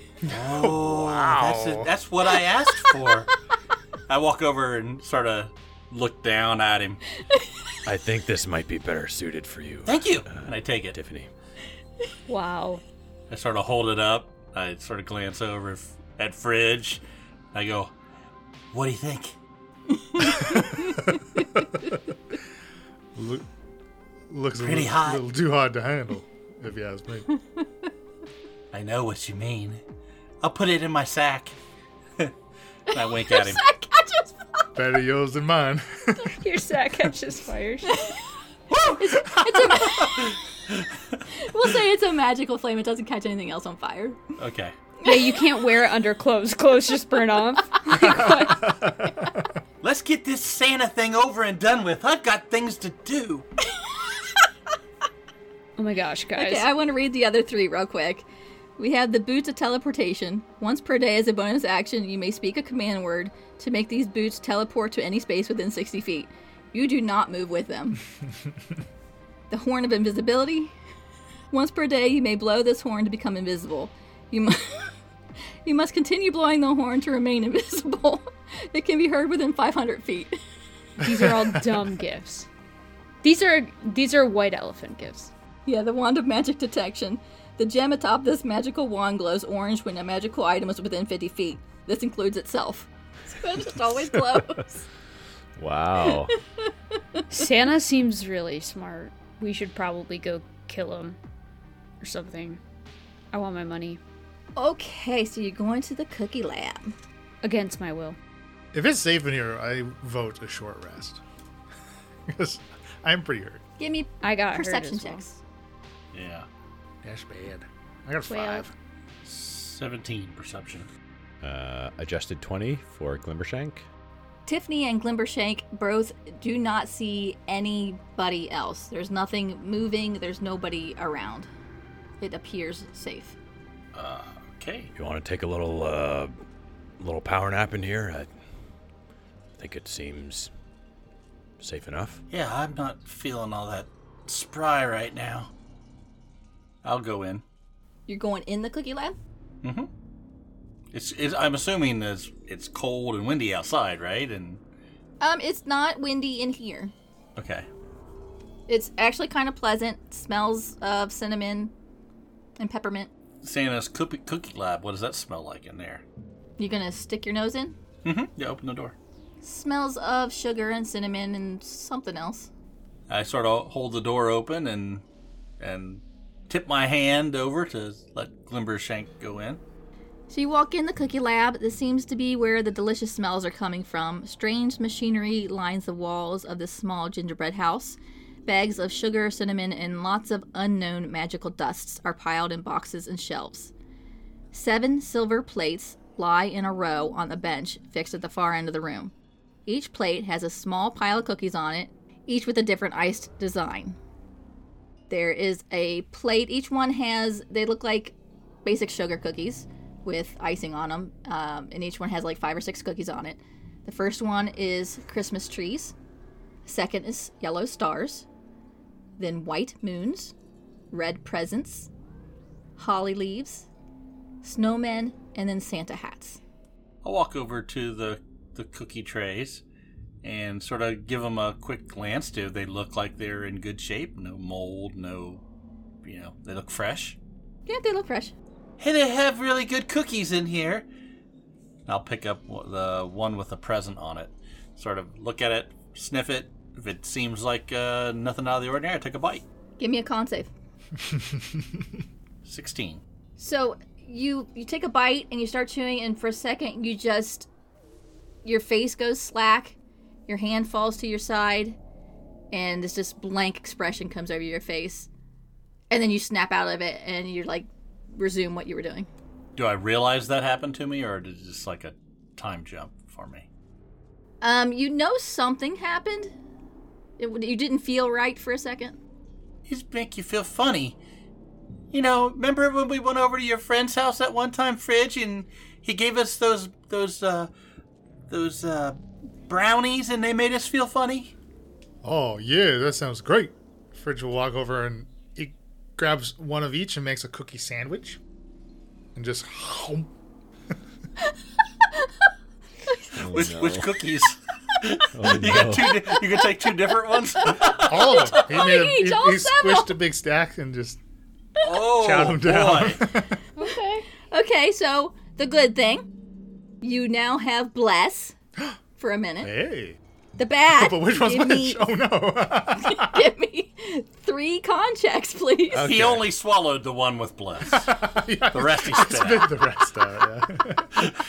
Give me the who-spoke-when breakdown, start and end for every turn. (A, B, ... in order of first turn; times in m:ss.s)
0:00.3-0:01.9 A
0:00.3-0:03.3 B
0:04.1-0:07.0 B
0:07.3-0:07.8 C
0:07.9-0:11.3 D
0:09.9-0:11.0 B
0:12.3-0:12.8 E
0:13.3-0:17.0 B
0:17.5-0:17.9 B
0:18.7-0:19.4 B
0:20.0-0:21.1 C
0:20.3-0:21.9 A
0:23.2-0:23.5 A
0:24.3-0:27.3 A
0:24.6-0:25.2 B
0:27.3-0:27.6 C
0:28.7-0:29.8 B
0:30.4-0:31.6 B
0:32.9-0:34.6 C
0:32.9-0:33.6 B
0:34.8-0:36.4 A
0:36.4-0:38.0 E
0:37.9-0:38.2 C
0:38.9-0:40.4 C
0:39.9-0:41.2 B
0:41.3-0:44.2 C
0:44.4-0:44.8 B
0:45.0-0:45.6 C
0:45.0-0:48.7 E
0:48.2-0:49.5 A
0:49.8-0:53.5 B
0:53.7-0:54.5 C
0:55.8-0:56.7 E
0:56.4-0:58.3 C
0:58.8-1:08.0 C
1:09.5-1:10.7 C
1:11.5-1:14.9 C
1:15.6-1:20.4 C
1:21.0-1:22.5 E
1:23.2-1:25.3 E
1:25.7-1:34.8 C
1:35.6-1:36.3 F
1:36.0-1:37.2 C
1:37.3-1:41.2 E
1:42.0-1:42.6 E
1:43.3-1:44.0 E
1:44.6-1:47.0 C
1:47.4-1:48.2 E
1:48.7-1:51.2 A
1:52.3-1:53.6 A
1:53.8-1:55.4 C
1:54.2-1:55.2 E
1:56.1-1:56.5 B
1:57.0-1:58.7 A
1:58.3-1:58.7 E
1:59.2-2:00.9 B
2:01.4-2:03.9 F
2:04.5-2:11.5 C
2:12.2-2:13.4 C
2:13.9-2:14.9 B
2:15.0-2:16.4 D
2:17.0-2:18.3 D
2:19.6-2:20.5 D
2:21.6-2:22.2 D
2:22.3-2:25.5 B
2:26.8-2:27.4 B
2:28.1-2:29.2 C
2:29.6-2:29.9 B
2:30.9-2:34.6 B
2:35.2-2:36.9 C
2:37.4-2:37.7 B
2:38.7-2:41.7 C
2:42.6-2:43.1 C
2:43.4-2:46.0 B
2:46.6-2:47.8 C
2:48.0-2:49.0 B
2:49.4-2:52.5 C
2:53.1-2:55.0 B
2:55.6-2:59.6 B
3:00.3-3:13.7 C
3:14.5-3:19.1 C
3:19.7-3:24.0 C
3:25.1-3:35.9 C
3:36.6-3:38.3 C
3:39.2-3:40.3 C
3:40.9-3:41.9 C
3:42.8-3:43.7 C
3:44.4-3:46.4 C
3:47.0-3:49.6 B
3:50.2-3:55.4 B
3:56.0-3:57.2 B
3:57.7-3:58.3 C
3:58.8-4:00.9 B
4:01.9-4:09.4 B
4:09.8-4:10.5 C
4:12.4-4:13.0 B
4:13.4-4:17.5 C
4:18.4-4:19.8 C
4:20.3-4:21.8 C
4:22.5-4:25.1 C
4:25.9-4:29.1 C
4:29.6-4:33.5 B
4:34.4-4:36.3 C
4:37.2-4:39.0 C
4:39.7-4:41.0 B
4:41.9-4:47.5 B
4:48.3-4:51.3 B
4:52.0-4:58.2 A
4:59.2-5:00.1 A
5:03.2-5:03.9 F
5:03.3-5:08.4 B
5:05.2-5:06.0 F
5:07.4-5:10.0 C
5:07.6-5:11.0 A
5:11.6-5:13.1 B
5:11.8-5:13.4 A
5:13.6-5:14.0 E
5:13.6-5:16.1 C
5:16.8-5:18.4 C
5:19.0-5:19.5 C
5:19.4-5:20.0 A
5:20.4-5:21.9 C
5:20.7-5:23.3 A
5:22.8-5:26.0 C
5:25.7-5:27.9 B
5:25.8-5:26.2 F
5:27.6-5:31.1 A
5:28.5-5:29.6 B